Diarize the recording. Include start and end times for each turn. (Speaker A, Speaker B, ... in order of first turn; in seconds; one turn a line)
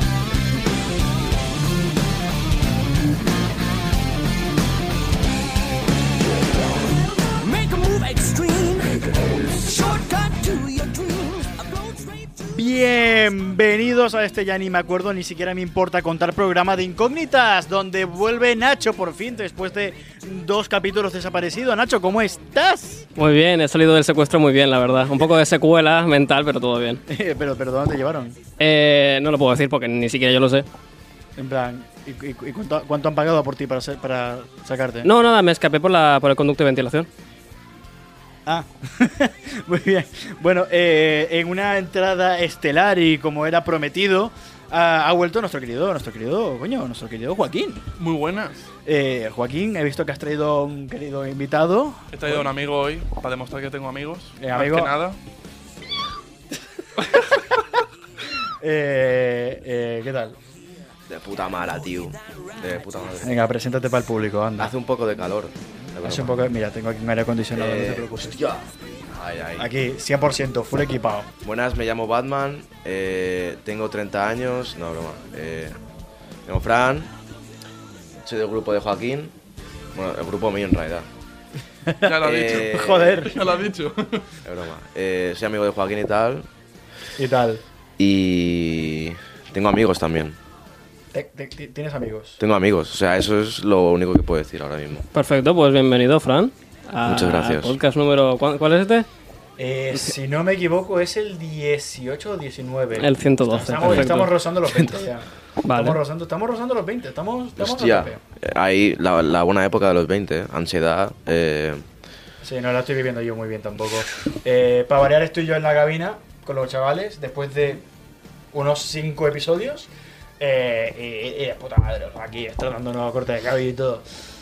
Speaker A: 7.5-8.9
Speaker A: 9.5-12.3
Speaker B: 12.5-23.1
Speaker C: 23.2-27.0
Speaker B: 27.1-28.4
Speaker C: 28.6-30.7
Speaker B: 31.4-35.1
Speaker C: 35.0-37.1
Speaker B: 38.5-47.8
Speaker D: 48.0-48.7
Speaker B: 48.9-52.5
Speaker D: 52.1-55.2
Speaker B: 54.4-55.0
Speaker B: 57.0-57.3
Speaker B: 58.6-60.4
Speaker E: 61.1-63.4
Speaker B: 63.2-64.7
Speaker E: 64.6-66.5
Speaker B: 66.0-68.5
Speaker E: 67.5-69.7
Speaker B: 69.6-71.3
Speaker E: 71.4-75.8
Speaker E: 76.5-77.1
Speaker E: 78.2-79.3
Speaker E: 79.9-81.1
Speaker B: 81.9-83.4
Speaker D: 82.0-84.3
Speaker E: 82.2-83.3
Speaker E: 84.5-86.5
Speaker B: 87.2-87.6
Speaker E: 88.0-90.4
Speaker B: 91.1-92.4
Speaker E: 92.4-95.0
Speaker C: 95.1-99.1
Speaker E: 97.0-97.8
Speaker B: 99.6-108.2
Speaker C: 103.0-104.3
Speaker C: 105.6-106.0
Speaker E: 107.6-111.8
Speaker B: 112.4-117.8
Speaker B: 118.5-124.0